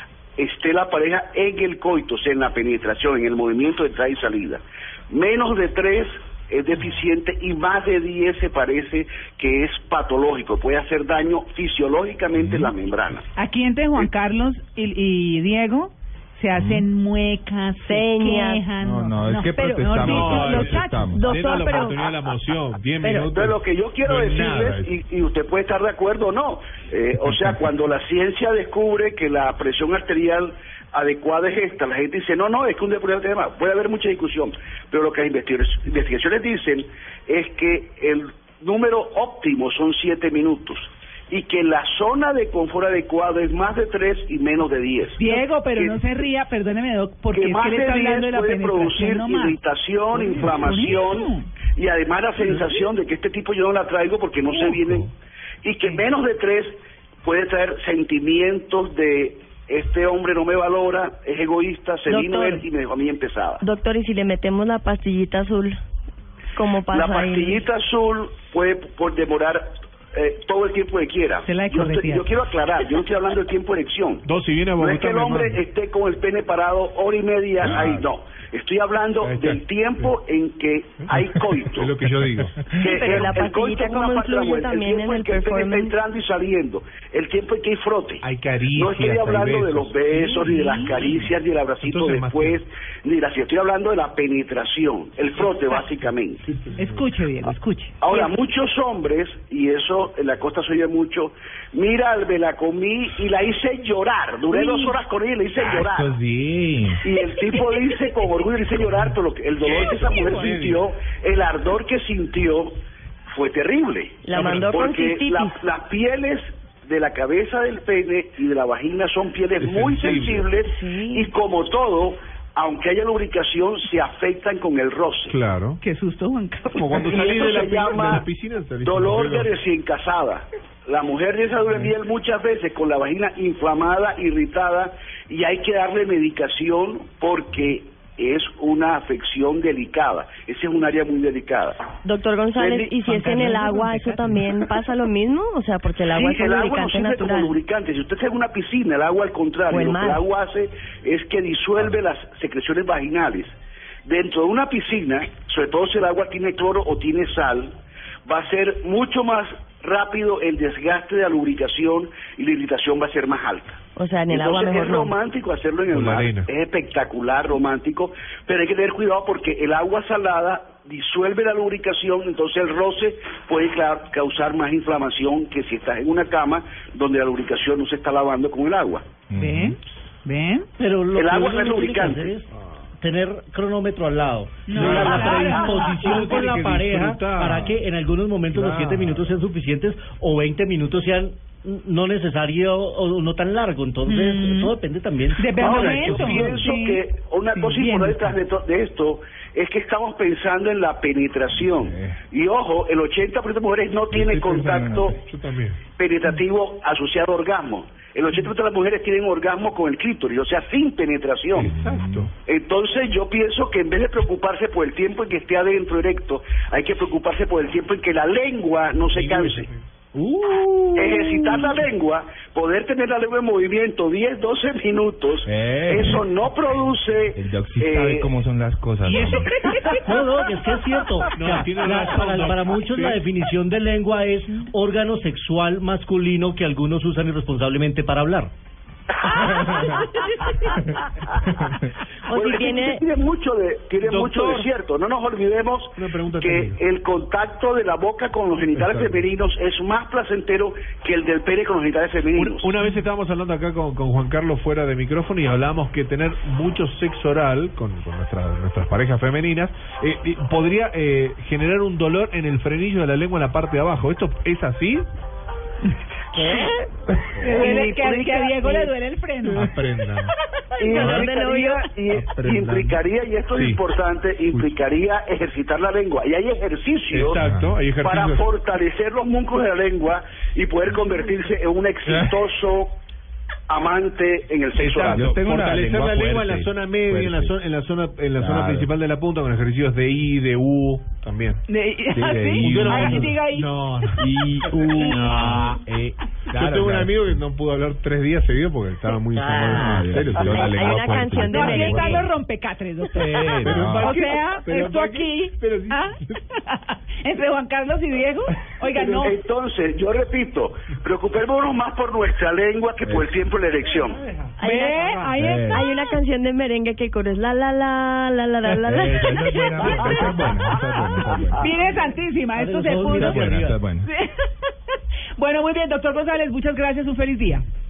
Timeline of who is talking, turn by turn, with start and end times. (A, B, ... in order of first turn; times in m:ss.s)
0:00.4-0:13.2 A
0:12.3-0:12.7 B
0:13.3-0:21.8 C
0:16.5-0:16.9 B
0:17.8-0:18.6 D
0:18.8-0:21.3 B
0:19.9-0:24.9 E
0:21.1-0:22.2 D
0:23.0-0:23.3 D
0:23.3-0:46.0 A
0:45.2-0:49.6 C
0:47.3-0:55.1 A
0:50.2-0:51.5 C
0:55.6-1:03.6 A
1:02.1-1:02.6 D
1:03.6-1:05.8 D
1:06.6-1:07.6 D
1:06.9-1:14.2 A
1:11.4-1:12.3 C
1:14.2-1:15.6 E
1:14.8-1:21.9 A
1:17.6-1:18.0 E
1:19.2-1:20.1 E
1:21.1-1:22.6 E
1:22.8-1:26.0 D
1:22.8-1:36.4 A
1:28.2-1:32.6 E
1:36.5-1:36.9 E
1:36.8-1:38.3 C
1:38.0-1:46.1 A
1:44.5-1:44.9 C
1:45.6-1:47.0 B
1:47.0-2:05.4 A
1:48.8-1:50.8 E
1:54.2-1:55.6 D
1:54.3-1:54.7 E
1:59.6-2:00.5 E
2:00.6-2:01.3 D
2:05.3-2:05.8 E
2:05.8-2:07.4 C
2:06.7-2:09.5 E
2:07.0-2:08.3 A
2:08.8-2:21.9 A
2:22.0-2:27.6 D
2:22.6-2:23.0 A
2:23.0-2:24.5 C
2:26.0-2:33.6 A
2:29.7-2:30.2 D
2:34.1-2:37.7 A
2:38.2-2:59.1 A
2:44.0-2:45.2 D
2:45.9-2:46.5 E
2:59.3-2:59.8 B
2:59.3-3:00.7 C
3:00.8-3:02.4 F
3:01.1-3:02.4 A
3:03.0-3:16.7 F
3:04.7-3:06.5 C
3:04.7-3:07.8 E
3:04.8-3:05.1 B
3:08.6-3:09.1 E
3:14.0-3:14.8 C
3:15.3-3:17.0 C
3:15.6-3:25.2 A
3:17.5-3:18.4 C
3:21.5-3:22.2 B
3:24.1-3:25.2 B
3:25.2-3:25.8 E
3:25.9-3:31.7 A
3:31.5-3:32.3 E
3:31.6-3:32.3 B
3:32.4-3:39.7 A
3:39.1-3:39.8 E
3:40.2-3:41.0 F
3:40.9-3:48.4 A
3:45.4-3:46.2 B
3:47.3-3:49.5 B
3:49.0-3:50.1 E
3:50.0-3:58.5 F
3:51.3-3:53.3 E
3:59.2-4:00.4 A
3:59.4-4:00.0 B
4:02.3-4:03.0 D
4:02.3-4:12.7 A
4:04.0-4:04.7 E
4:06.0-4:06.8 E
4:08.7-4:09.2 E
4:12.3-4:25.1 E
4:26.4-4:26.7 D
4:27.4-4:28.9 A
4:27.4-4:29.8 C
4:29.4-4:30.3 E
4:30.8-4:37.4 A
4:30.8-4:31.8 D
4:30.9-4:31.3 E
4:32.1-4:33.8 E
4:37.1-4:38.4 E
4:37.4-4:37.8 B
4:38.0-4:42.9 A
4:42.1-4:42.4 B
4:43.7-4:45.3 A
4:44.7-4:51.6 E
4:45.0-4:47.6 B
4:48.4-4:48.9 B
4:51.7-4:53.7 C
4:52.1-4:53.4 B
4:52.6-4:54.3 E
4:54.2-4:57.1 B
4:54.9-4:55.7 C
4:55.0-4:55.7 E
4:56.5-5:01.3 E
4:59.4-5:02.3 D
4:59.7-5:02.3 B
5:00.2-5:00.5 A
5:01.5-5:09.4 C
5:03.1-5:04.2 B
5:03.6-5:06.4 E
5:09.2-5:14.2 A
5:13.0-5:13.3 B
5:13.9-5:15.3 E
5:14.6-5:15.1 D
5:14.6-5:15.9 C
5:15.4-5:15.9 B
5:15.7-5:20.1 D
5:18.6-5:21.7 B
5:19.8-5:27.6 C
5:20.0-5:20.4 A
5:21.4-5:21.7 A
5:22.6-5:23.8 F
5:23.1-5:24.1 B